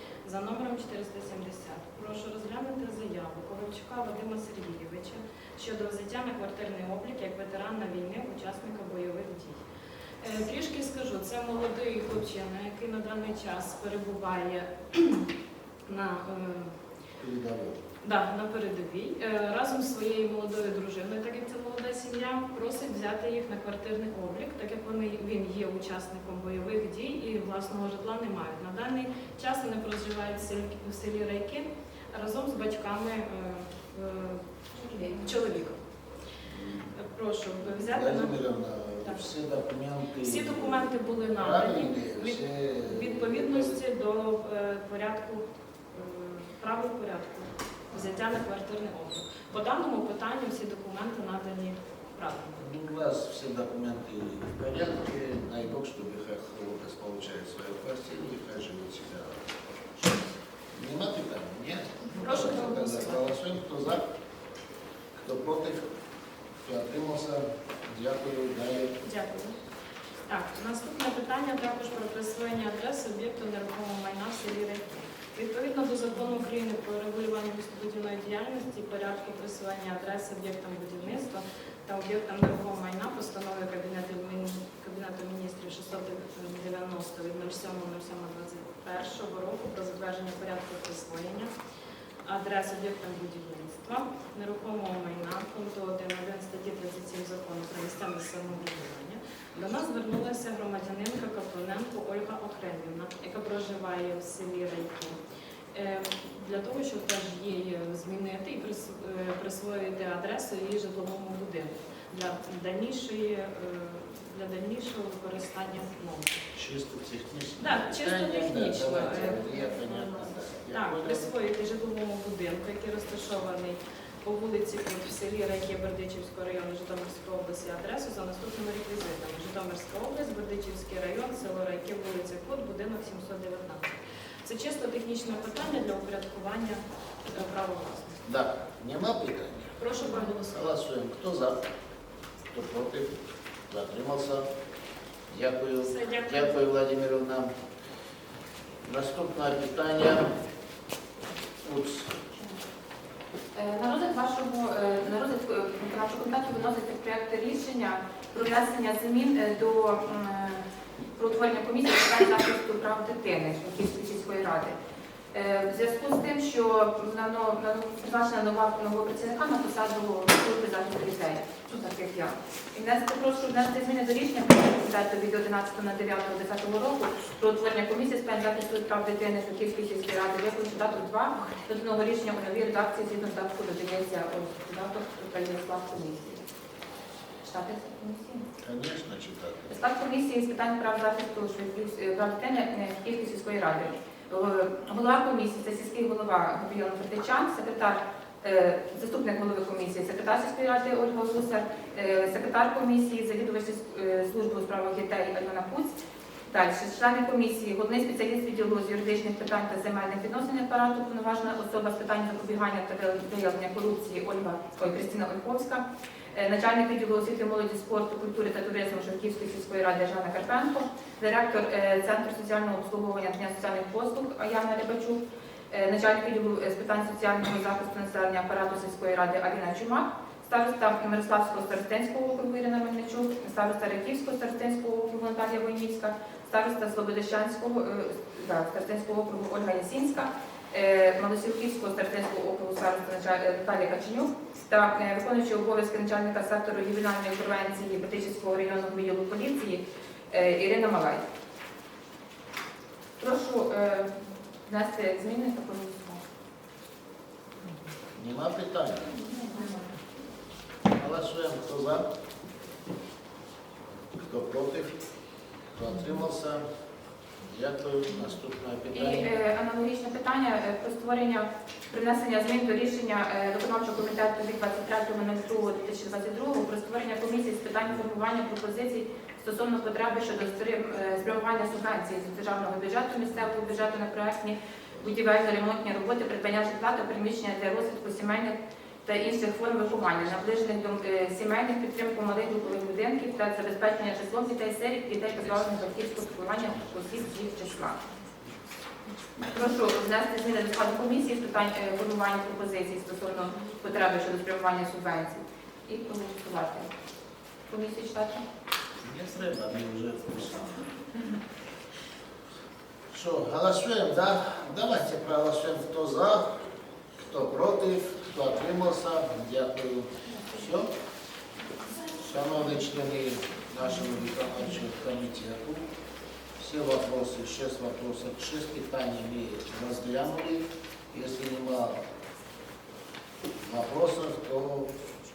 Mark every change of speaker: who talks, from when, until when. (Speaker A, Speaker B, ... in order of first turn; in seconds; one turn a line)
Speaker A: 0.2-9.6
Speaker A: 10.2-15.3
Speaker A: 15.9-16.7
Speaker B: 17.2-17.8
Speaker A: 18.0-34.4
Speaker C: 34.8-35.2
Speaker A: 35.2-35.8
Speaker B: 36.5-36.9
Speaker A: 36.9-38.4
Speaker B: 37.8-40.8
Speaker A: 39.0-39.3
Speaker A: 40.2-52.6
Speaker B: 41.4-43.7
Speaker B: 52.6-59.4
Speaker B: 60.7-64.0
Speaker A: 62.1-63.2
Speaker B: 65.1-65.8
Speaker B: 66.6-68.9
Speaker A: 69.0-69.6
Speaker A: 70.3-91.5
Speaker A: 92.2-105.2
Speaker A: 105.7-116.4
Speaker B: 116.5-121.3
Speaker A: 117.6-138.2
Speaker B: 138.2-141.6
Speaker A: 139.8-140.6
Speaker B: 142.5-143.1
Speaker B: 143.7-144.4
Speaker B: 145.3-147.5
Speaker A: 145.8-146.6
Speaker B: 148.8-150.3
Speaker B: 151.6-152.1
Speaker C: 153.5-160.6
Speaker C: 161.2-164.7
Speaker C: 165.3-186.4
Speaker C: 187.4-188.5
Speaker B: 188.6-189.7
Speaker C: 189.7-205.9
Speaker C: 206.5-251.2
Speaker C: 253.2-254.1
Speaker C: 254.7-256.2
Speaker B: 258.1-259.1
Speaker C: 259.2-259.9
Speaker B: 260.9-262.1
Speaker B: 264.2-264.9
Speaker B: 265.7-266.6
Speaker B: 267.4-269.3
Speaker C: 268.9-298.0
Speaker C: 299.4-306.9
Speaker C: 307.7-308.4
Speaker B: 309.0-310.9
Speaker B: 313.1-316.5
Speaker B: 317.3-320.9
Speaker B: 322.1-325.8
Speaker B: 326.6-332.0
Speaker B: 333.6-334.9